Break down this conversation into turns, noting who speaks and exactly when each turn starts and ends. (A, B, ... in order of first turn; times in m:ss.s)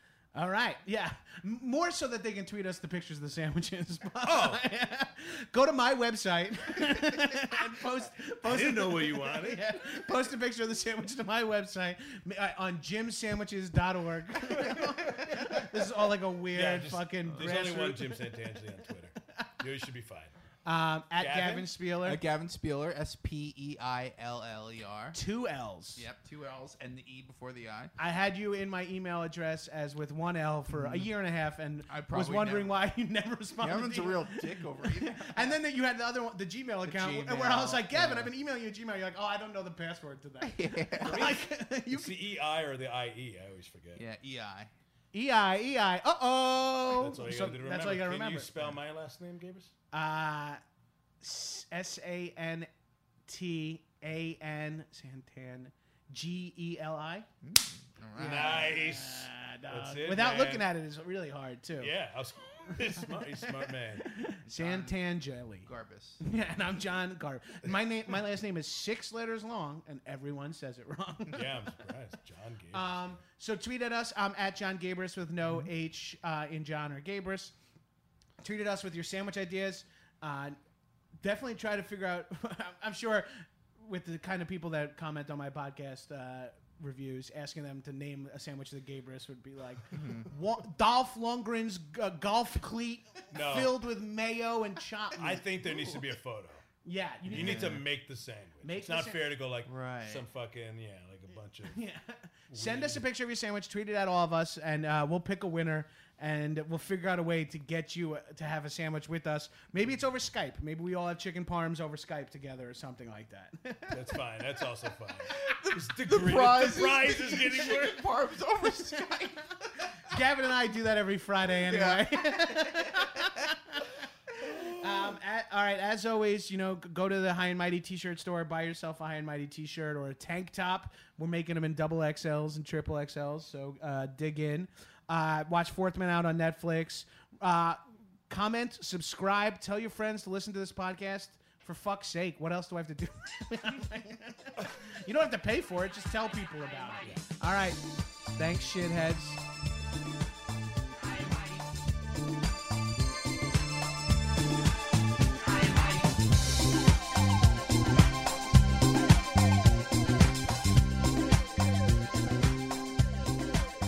0:00.3-0:18.2 A
0:04.2-0:04.6 B
0:08.4-0:09.8 B
0:14.6-0:15.6 B
0:16.5-0:20.3 B
0:20.6-0:22.2 A
0:21.2-0:21.7 B
0:22.0-0:25.2 C
0:25.1-0:26.0 A
0:26.0-0:27.9 C
0:28.0-0:42.1 A
0:30.7-0:31.1 C
0:31.9-0:32.8 C
0:33.6-0:35.6 C
0:36.8-0:38.3 C
0:40.4-0:41.2 C
0:41.0-0:44.0 B
0:44.0-0:44.7 C
0:45.1-0:48.5 A
0:46.9-0:49.7 B
0:49.9-0:50.6 A
0:51.2-0:52.7 A
0:53.3-0:57.3 A
0:57.4-0:58.7 C
0:58.1-1:01.9 A
0:58.2-1:00.7 B
1:01.8-1:04.1 B
1:04.0-1:05.7 A
1:04.4-1:05.0 C
1:05.6-1:06.2 C
1:06.2-1:11.6 A
1:11.3-1:13.1 B
1:12.7-1:17.5 A
1:15.4-1:15.7 C
1:18.4-1:20.6 A
1:21.2-1:35.4 A
1:29.9-1:30.3 C
1:33.3-1:33.8 B
1:35.2-1:36.6 B
1:35.7-1:36.0 C
1:36.8-1:37.8 A
1:37.2-1:41.8 B
1:37.3-1:37.8 C
1:38.6-1:39.2 A
1:39.6-1:40.2 C
1:41.7-1:54.2 A
1:42.5-1:43.0 B
1:53.9-1:58.0 B
1:55.4-2:00.2 C
2:00.0-2:03.8 A
2:01.6-2:03.4 C
2:04.6-2:29.4 A